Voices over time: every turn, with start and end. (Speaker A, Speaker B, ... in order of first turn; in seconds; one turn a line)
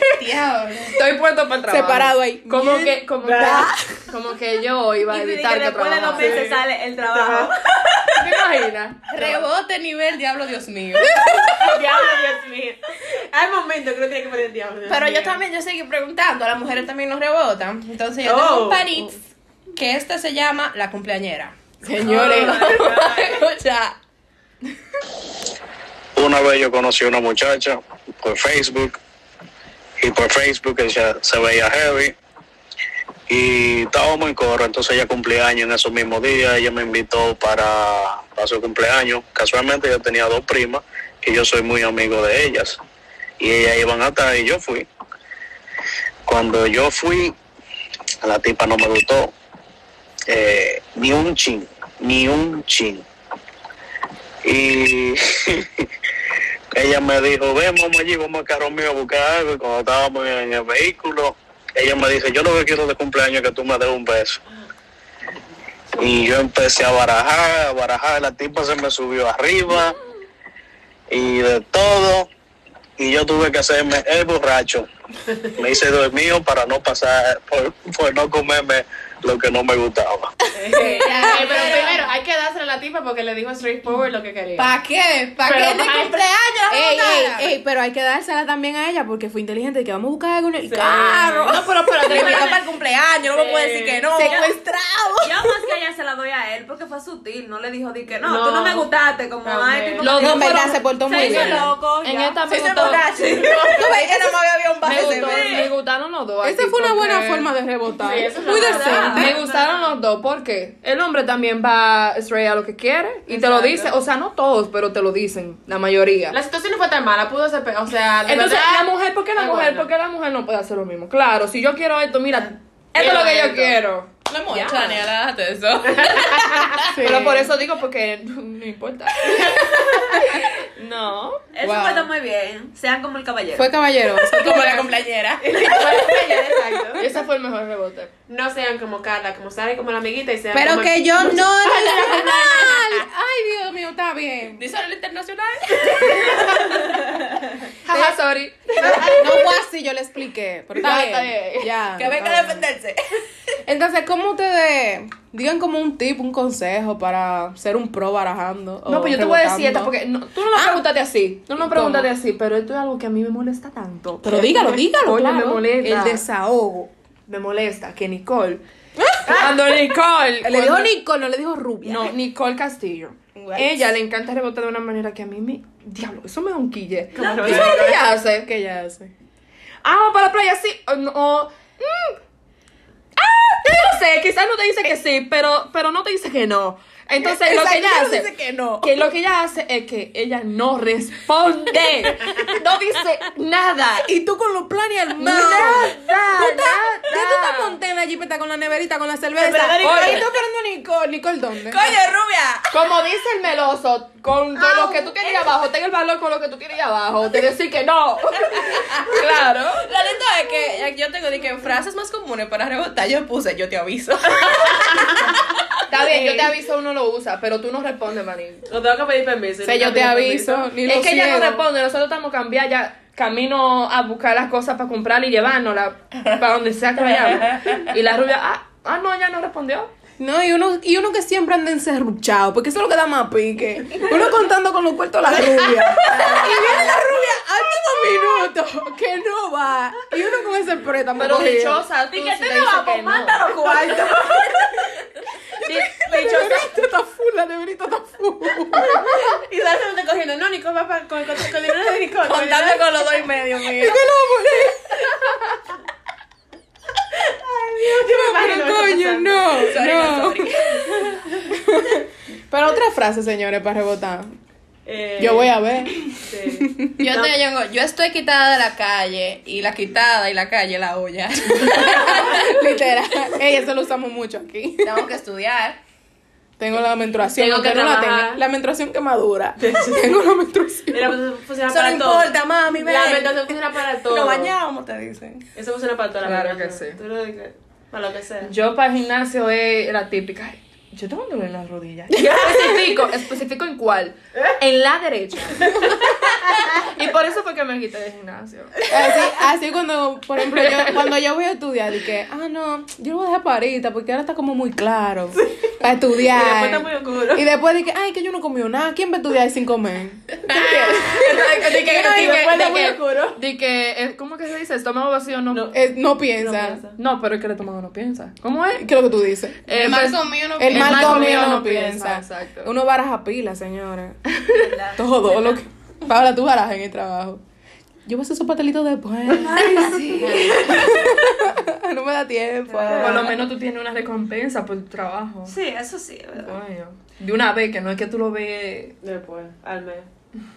Speaker A: 0.1-1.0
Speaker B: 0.9-6.5
Speaker C: 1.7-3.8
Speaker D: 3.2-3.7
Speaker E: 5.1-8.3
Speaker D: 6.0-7.6
Speaker B: 8.2-9.2
Speaker A: 9.1-11.2
Speaker C: 11.0-11.8
Speaker D: 11.6-12.8
Speaker D: 13.3-15.4
Speaker A: 14.9-19.2
Speaker D: 18.2-18.9
Speaker A: 19.7-24.0
Speaker C: 21.8-22.9
Speaker D: 22.0-23.4
Speaker F: 26.1-29.0
Speaker F: 30.0-32.1
Speaker F: 33.3-42.8
Speaker F: 43.4-44.9
Speaker F: 46.2-47.3
Speaker F: 48.2-49.3
Speaker F: 50.3-53.0
Speaker F: 54.4-55.8
Speaker F: 56.7-64.4
Speaker F: 66.0-70.0
Speaker F: 71.1-72.3
Speaker F: 73.0-74.9
Speaker F: 75.6-80.3
Speaker D: 80.5-84.7
Speaker A: 80.7-82.0
Speaker A: 84.5-87.5
Speaker D: 85.4-86.2
Speaker C: 86.7-91.6
Speaker D: 90.7-92.6
Speaker A: 90.9-95.3
Speaker E: 92.0-92.6
Speaker D: 93.2-94.4
Speaker C: 94.1-94.6
Speaker E: 95.2-104.2
Speaker D: 98.2-98.9
Speaker D: 99.4-100.3
Speaker B: 100.0-103.1
Speaker C: 100.2-101.7
Speaker D: 101.3-101.7
Speaker A: 102.5-105.6
Speaker D: 103.2-104.1
Speaker B: 104.8-107.5
Speaker E: 104.8-105.7
Speaker C: 106.4-109.3
Speaker D: 108.0-109.3
Speaker E: 108.5-109.9
Speaker B: 109.0-116.4
Speaker D: 113.3-113.9
Speaker D: 116.3-119.9
Speaker B: 118.2-124.1
Speaker D: 123.0-123.8
Speaker A: 124.3-126.8
Speaker D: 124.6-125.0
Speaker D: 125.9-126.8
Speaker C: 126.9-127.5
Speaker B: 126.9-129.6
Speaker A: 129.3-129.8
Speaker B: 130.1-131.4
Speaker E: 131.5-133.8
Speaker C: 131.6-132.1
Speaker C: 133.6-134.9
Speaker A: 134.3-136.7
Speaker D: 135.4-137.0
Speaker B: 136.9-138.1
Speaker D: 138.3-142.9
Speaker A: 140.5-142.8
Speaker C: 140.6-144.6
Speaker A: 144.6-146.7
Speaker D: 145.8-147.2
Speaker B: 147.8-149.2
Speaker D: 148.8-149.5
Speaker C: 148.8-152.6
Speaker A: 148.8-149.2
Speaker B: 150.7-151.8
Speaker A: 151.9-153.2
Speaker C: 153.7-159.9
Speaker B: 158.8-166.2
Speaker C: 160.5-160.9
Speaker C: 161.5-162.1
Speaker C: 164.2-166.9
Speaker B: 167.3-168.6
Speaker C: 169.0-169.7
Speaker B: 169.3-170.9
Speaker D: 169.3-169.5
Speaker C: 170.4-172.1
Speaker B: 171.8-178.5
Speaker A: 173.3-173.9
Speaker D: 177.1-178.1
Speaker C: 177.3-179.1
Speaker B: 179.8-182.2
Speaker B: 183.2-194.2
Speaker A: 187.2-188.9
Speaker C: 187.5-188.8
Speaker C: 194.1-201.9
Speaker B: 195.1-197.8
Speaker A: 195.2-195.9
Speaker D: 199.4-200.2
Speaker B: 199.8-200.2
Speaker A: 201.7-202.7
Speaker B: 202.7-209.8
Speaker A: 204.6-205.5
Speaker A: 209.8-215.4
Speaker B: 215.9-218.7
Speaker D: 216.1-216.5
Speaker D: 218.7-220.7
Speaker C: 219.6-221.6
Speaker B: 220.8-229.9
Speaker C: 230.2-241.8
Speaker B: 241.1-243.5
Speaker E: 242.1-244.5
Speaker A: 243.4-244.3
Speaker D: 243.5-244.5
Speaker C: 245.6-249.1
Speaker D: 246.2-246.5
Speaker D: 248.8-252.9
Speaker A: 252.2-254.0
Speaker C: 253.8-255.1
Speaker D: 257.3-259.9
Speaker C: 257.9-264.3
Speaker A: 259.6-261.0
Speaker D: 264.9-267.3
Speaker C: 265.2-267.0
Speaker A: 267.0-272.4
Speaker C: 271.6-275.1
Speaker A: 274.8-275.8
Speaker C: 276.6-281.2
Speaker B: 277.4-278.4
Speaker D: 279.6-280.2
Speaker D: 280.9-284.6
Speaker A: 281.7-285.4
Speaker D: 285.6-288.5
Speaker B: 286.2-287.0
Speaker B: 288.4-298.7
Speaker D: 292.1-293.1
Speaker C: 298.9-312.4
Speaker B: 300.6-300.9
Speaker D: 305.4-307.4
Speaker D: 310.5-313.4
Speaker A: 310.8-312.6
Speaker B: 311.9-315.7
Speaker D: 315.5-317.0
Speaker C: 315.7-316.8
Speaker B: 316.9-318.8
Speaker C: 318.8-319.6
Speaker B: 319.6-322.7
Speaker A: 319.7-321.6
Speaker C: 320.6-324.2
Speaker E: 324.5-325.6
Speaker C: 325.0-327.4
Speaker C: 328.1-333.3
Speaker E: 329.3-331.2
Speaker B: 329.7-330.5
Speaker E: 332.7-333.0
Speaker D: 332.9-333.3
Speaker B: 332.9-335.6
Speaker E: 335.4-336.6
Speaker B: 336.4-338.9
Speaker D: 339.0-340.1